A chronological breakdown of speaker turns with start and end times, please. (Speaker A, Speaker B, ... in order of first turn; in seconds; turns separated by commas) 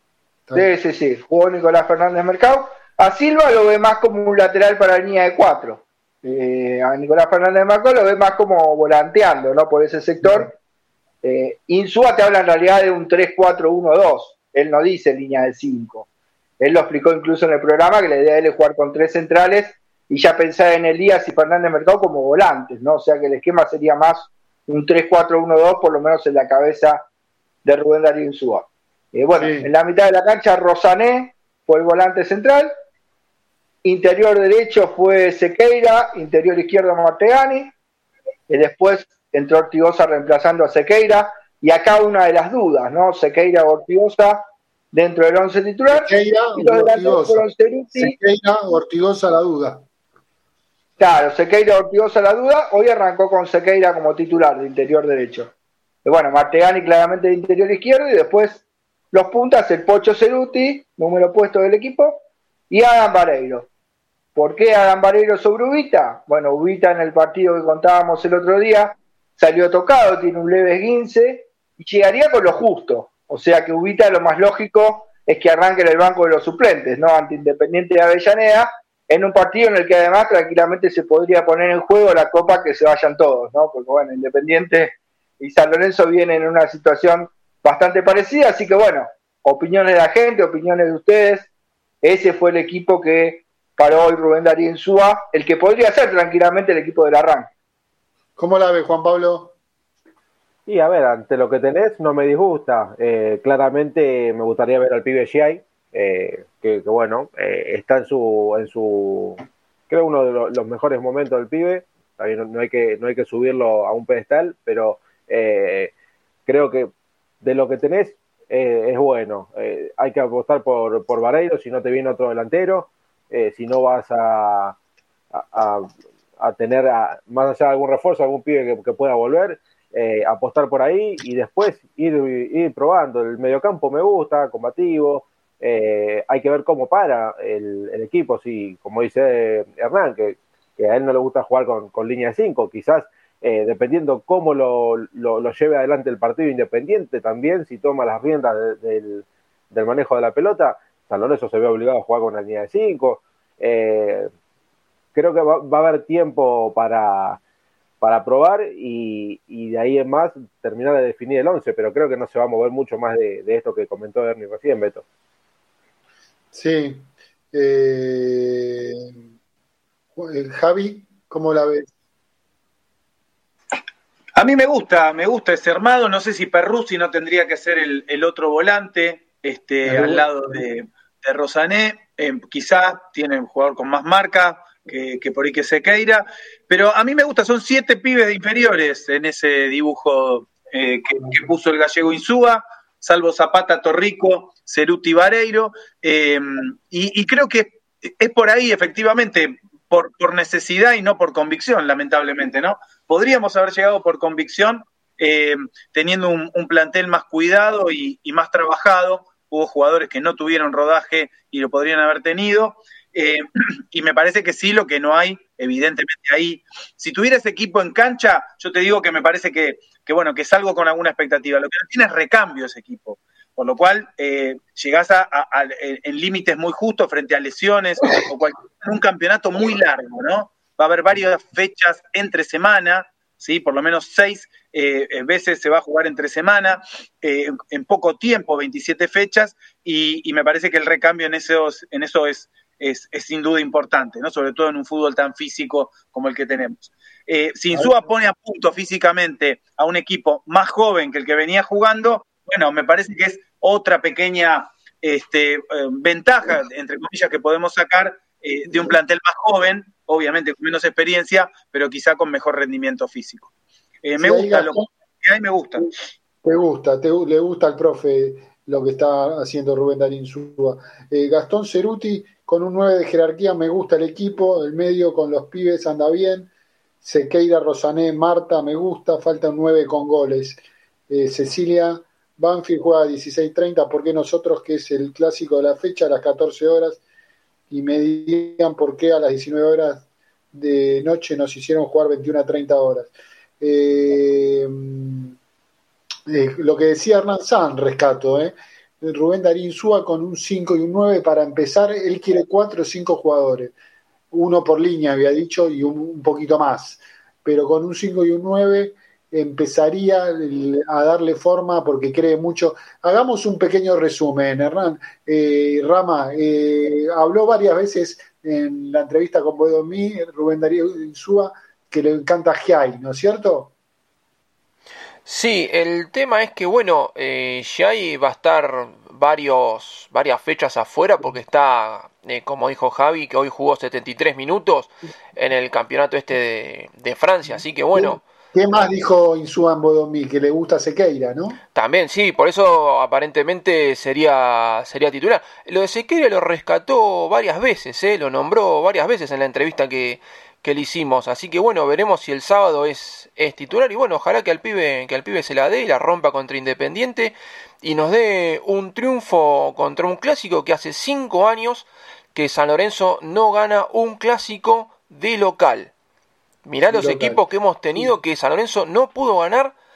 Speaker A: 0.6-10.5, Speaker B: 10.2-10.5, Speaker A: 11.2-16.1, Speaker A: 16.6-27.1, Speaker A: 27.6-32.7, Speaker B: 29.4-29.7, Speaker A: 33.8-37.7, Speaker A: 38.5-48.1, Speaker B: 45.9-49.9, Speaker A: 51.0-55.5, Speaker A: 56.0-63.7, Speaker A: 64.4-91.5, Speaker A: 92.0-97.5, Speaker B: 98.4-99.5, Speaker C: 100.7-115.9, Speaker C: 116.5-116.9, Speaker C: 117.4-124.8, Speaker C: 125.3-154.3, Speaker C: 155.2-157.4, Speaker C: 158.0-165.0, Speaker B: 166.5-169.2, Speaker B: 170.2-171.9, Speaker D: 174.4-263.5, Speaker B: 179.8-180.3, Speaker D: 264.0-265.9, Speaker B: 264.2-264.9, Speaker B: 266.4-276.5, Speaker B: 277.0-287.0, Speaker B: 287.7-295.4, Speaker B: 296.3-303.8, Speaker B: 304.3-323.7, Speaker E: 325.3-338.2, Speaker B: 337.9-341.6, Speaker E: 341.8-365.9, Speaker E: 366.7-369.7, Speaker B: 366.9-367.4